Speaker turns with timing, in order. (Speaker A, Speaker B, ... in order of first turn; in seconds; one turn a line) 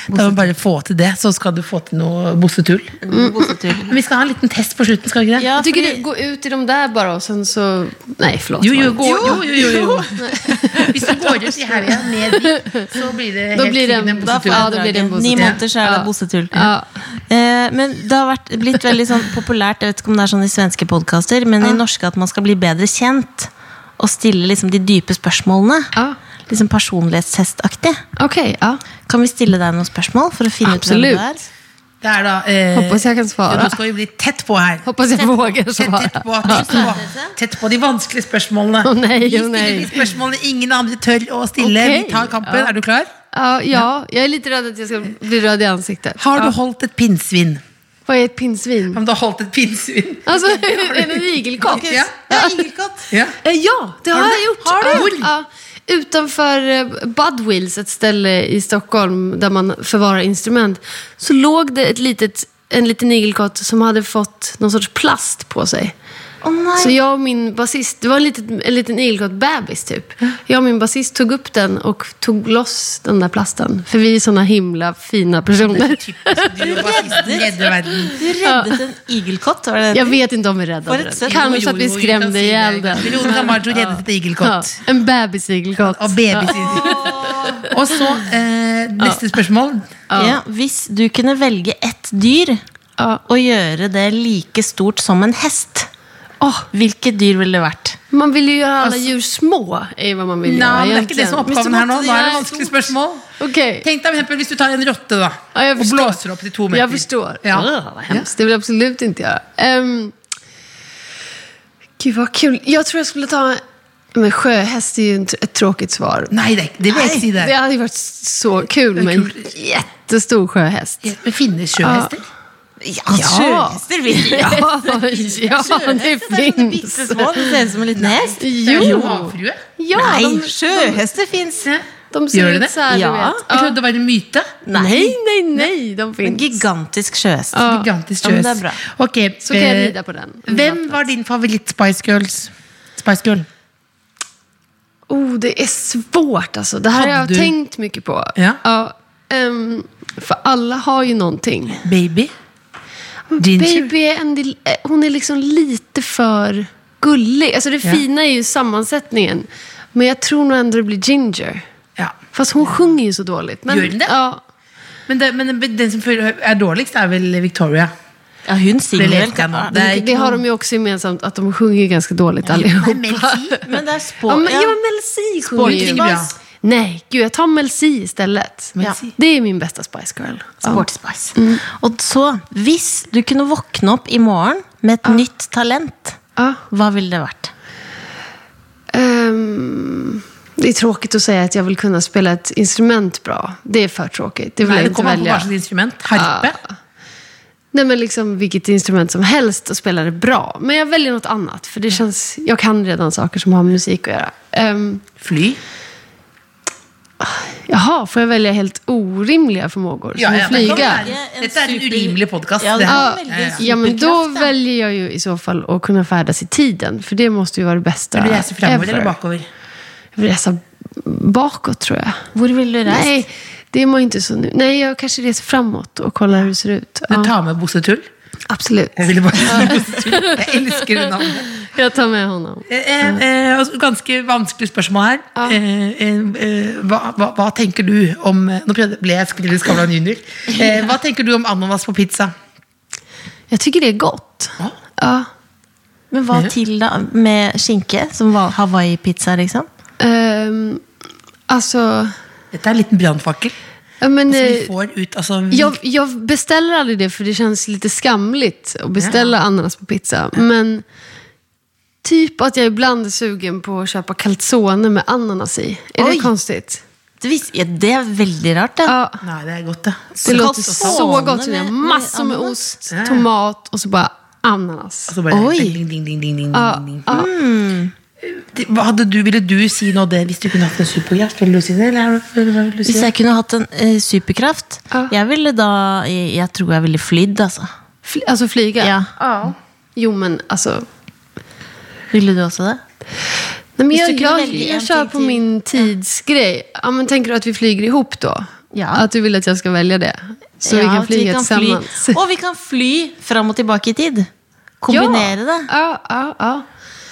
Speaker A: 0.1-0.5
Speaker B: 0.1-3.0
Speaker A: 3.0-4.0
Speaker C: 3.1-3.5
Speaker B: 3.9-5.5
Speaker A: 5.4-6.1
Speaker C: 5.6-9.4
Speaker B: 8.6-10.2
Speaker A: 9.0-11.3
Speaker C: 10.2-10.6
Speaker B: 10.7-14.7
Speaker C: 12.3-12.9
Speaker C: 13.5-16.9
Speaker A: 14.2-16.7
Speaker A: 17.3-25.9
Speaker A: 26.5-28.0
Speaker C: 28.2-28.8
Speaker A: 29.1-31.4
Speaker C: 30.6-31.2
Speaker B: 32.0-43.1
Speaker C: 32.8-33.8
Speaker C: 34.9-36.8
Speaker A: 36.5-37.4
Speaker C: 38.8-40.1
Speaker C: 41.6-42.7
Speaker C: 43.3-46.5
Speaker B: 46.2-47.6
Speaker C: 48.1-49.0
Speaker B: 48.9-52.1
Speaker C: 50.3-52.5
Speaker A: 51.6-53.1
Speaker B: 53.1-53.4
Speaker C: 53.4-65.9
Speaker A: 54.1-55.1
Speaker B: 54.8-55.3
Speaker A: 66.4-67.0
Speaker C: 66.8-77.1
Speaker B: 75.5-78.2
Speaker A: 76.6-77.5
Speaker C: 78.0-78.8
Speaker A: 78.1-80.2
Speaker C: 79.9-87.2
Speaker A: 80.9-81.3
Speaker B: 81.3-84.8
Speaker B: 85.8-87.2
Speaker A: 86.5-87.7
Speaker B: 87.7-90.0
Speaker C: 89.0-89.3
Speaker C: 90.1-90.4
Speaker A: 90.2-92.6
Speaker A: 93.3-95.9
Speaker C: 96.4-96.7
Speaker A: 96.7-98.0
Speaker C: 98.1-101.5
Speaker B: 98.8-99.1
Speaker B: 100.5-103.3
Speaker A: 101.5-102.7
Speaker C: 103.4-103.9
Speaker B: 103.8-108.3
Speaker C: 105.5-106.2
Speaker C: 106.7-110.1
Speaker C: 112.0-113.6
Speaker C: 114.1-116.3
Speaker B: 116.3-117.5
Speaker C: 117.2-121.0
Speaker B: 119.0-119.5
Speaker B: 121.0-122.2
Speaker C: 121.8-122.1
Speaker A: 122.8-129.2
Speaker C: 123.1-127.6
Speaker B: 127.9-130.2
Speaker C: 128.4-131.0
Speaker A: 129.9-131.7
Speaker B: 131.6-132.8
Speaker C: 132.1-133.8
Speaker A: 132.9-133.4
Speaker B: 133.5-134.5
Speaker A: 134.7-135.2
Speaker C: 134.7-136.6
Speaker A: 136.2-137.6
Speaker C: 137.5-137.9
Speaker B: 137.6-139.9
Speaker A: 138.2-138.8
Speaker C: 139.4-141.1
Speaker B: 140.5-143.5
Speaker C: 145.1-151.8
Speaker B: 146.9-147.5
Speaker B: 151.8-152.3
Speaker C: 153.3-161.6
Speaker B: 153.4-153.9
Speaker C: 162.3-164.4
Speaker B: 163.7-164.1
Speaker B: 165.1-167.9
Speaker A: 168.5-170.1
Speaker B: 169.0-170.4
Speaker C: 169.8-173.7
Speaker B: 172.4-173.6
Speaker A: 173.6-174.8
Speaker C: 174.3-181.6
Speaker A: 175.5-176.3
Speaker B: 175.6-176.3
Speaker B: 178.8-179.1
Speaker A: 180.6-186.2
Speaker A: 186.7-187.5
Speaker C: 188.9-195.5
Speaker B: 194.6-196.6
Speaker C: 196.1-196.6
Speaker C: 197.7-205.1
Speaker B: 205.2-205.6
Speaker C: 207.2-211.1
Speaker B: 210.2-213.6
Speaker A: 210.5-214.5
Speaker C: 212.9-219.2
Speaker B: 218.2-219.5
Speaker C: 220.2-222.3
Speaker A: 222.3-223.2
Speaker C: 222.9-227.3
Speaker B: 227.1-228.1
Speaker C: 228.5-233.2
Speaker B: 229.0-231.5
Speaker B: 232.7-242.3
Speaker C: 243.5-245.3
Speaker A: 246.1-249.7
Speaker C: 250.0-250.8
Speaker C: 251.5-252.1
Speaker B: 252.5-253.6
Speaker C: 254.0-254.7
Speaker B: 254.3-255.8
Speaker C: 255.5-260.8
Speaker B: 259.0-259.3
Speaker C: 262.0-266.8
Speaker A: 266.0-266.3
Speaker A: 267.2-269.0
Speaker C: 268.9-269.2
Speaker B: 269.2-271.1
Speaker A: 270.2-272.6
Speaker C: 270.2-275.1
Speaker B: 272.9-273.3
Speaker B: 275.1-277.1
Speaker A: 275.3-275.8
Speaker C: 276.5-277.3
Speaker A: 277.1-277.9
Speaker B: 278.2-283.1
Speaker A: 282.9-287.7
Speaker C: 288.1-290.9
Speaker A: 288.8-289.1
Speaker A: 292.1-292.8
Speaker C: 293.8-302.2
Speaker A: 293.9-295.8
Speaker A: 298.7-299.1
Speaker A: 300.6-304.3
Speaker A: 304.8-305.7
Speaker C: 304.9-306.7